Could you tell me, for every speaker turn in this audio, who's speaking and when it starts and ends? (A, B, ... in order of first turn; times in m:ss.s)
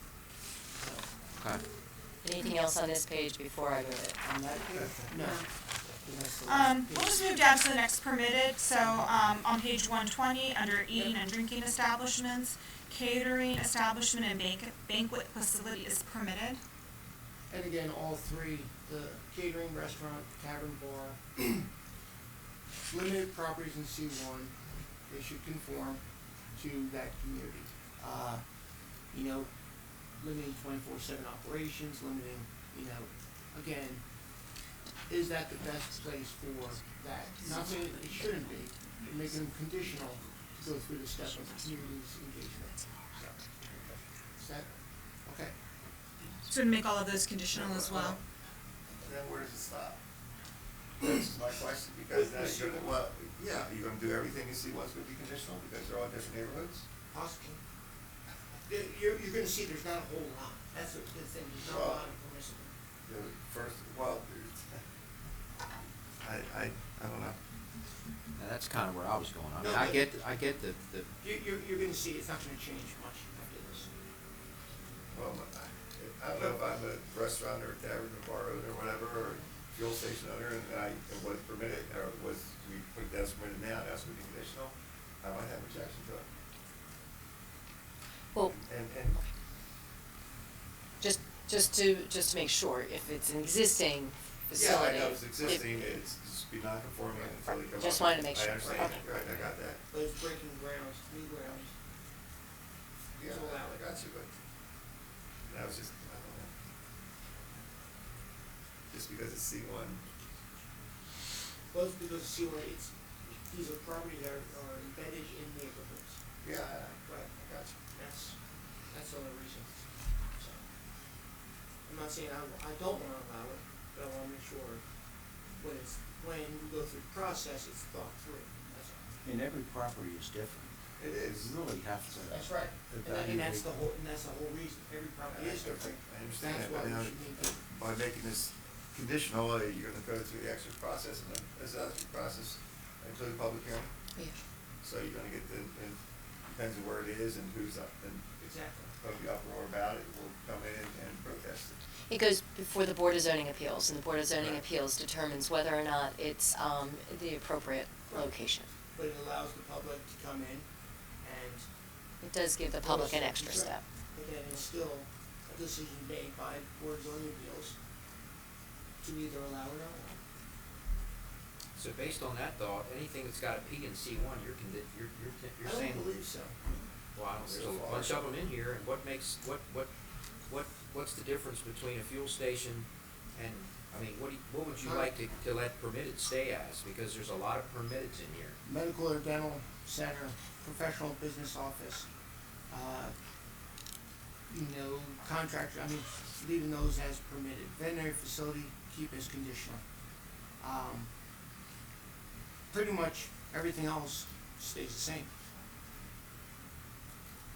0:00.8-0:01.1 A
0:01.4-0:01.6 B
0:02.2-0:04.2 C
0:04.2-0:07.3 A
0:05.1-0:05.4 C
0:06.5-0:16.6 D
0:08.8-0:09.2 A
0:10.9-0:11.2 A
0:17.5-0:21.7 A
0:22.9-0:24.5 A
0:25.1-0:26.0 A
0:26.5-0:28.4 A
0:29.1-0:29.5 A
0:30.2-0:34.0 A
0:35.1-0:43.6 A
0:44.3-0:45.5 A
0:46.5-0:48.2 D
0:47.5-0:48.2 E
0:49.0-0:50.0 E
0:51.0-0:56.8 E
0:52.1-0:53.0 A
0:57.1-0:57.6 A
0:58.6-1:02.7 A
1:01.6-1:02.0 E
1:03.0-1:04.8 E
1:06.2-1:07.4 E
1:08.4-1:11.1 B
1:09.6-1:10.1 A
1:11.2-1:13.9 A
1:15.1-1:26.3 E
1:28.4-1:29.2 E
1:31.0-1:35.9 C
1:34.5-1:39.8 E
1:37.3-1:39.4 C
1:38.6-1:41.8 A
1:43.2-1:44.3 E
1:43.2-1:43.8 A
1:45.5-1:46.5 E
1:48.9-1:50.0 E
1:51.7-1:56.2 A
1:56.4-1:57.7 E
1:57.0-1:58.4 A
1:58.9-2:00.7 A
2:01.8-2:04.8 A
2:05.6-2:09.1 A
2:09.2-2:13.7 F
2:11.0-2:11.6 E
2:12.1-2:17.6 A
2:15.2-2:23.9 E
2:24.8-2:28.2 E
2:28.4-2:28.9 A
2:29.0-2:31.8 E
2:32.1-2:38.7 C
2:34.4-2:34.6 E
2:38.1-2:40.7 A
2:41.2-2:41.7 A
2:42.2-2:43.8 C
2:42.8-2:47.8 A
2:49.0-2:50.2 A
2:51.7-2:56.1 B
2:55.6-2:56.8 A
2:57.1-2:59.9 B
2:57.4-2:58.2 E
3:00.5-3:08.6 B
3:04.8-3:05.1 A
3:08.6-3:12.1 A
3:12.7-3:13.2 A
3:14.5-3:19.8 A
3:20.6-3:21.1 A
3:22.7-3:25.3 A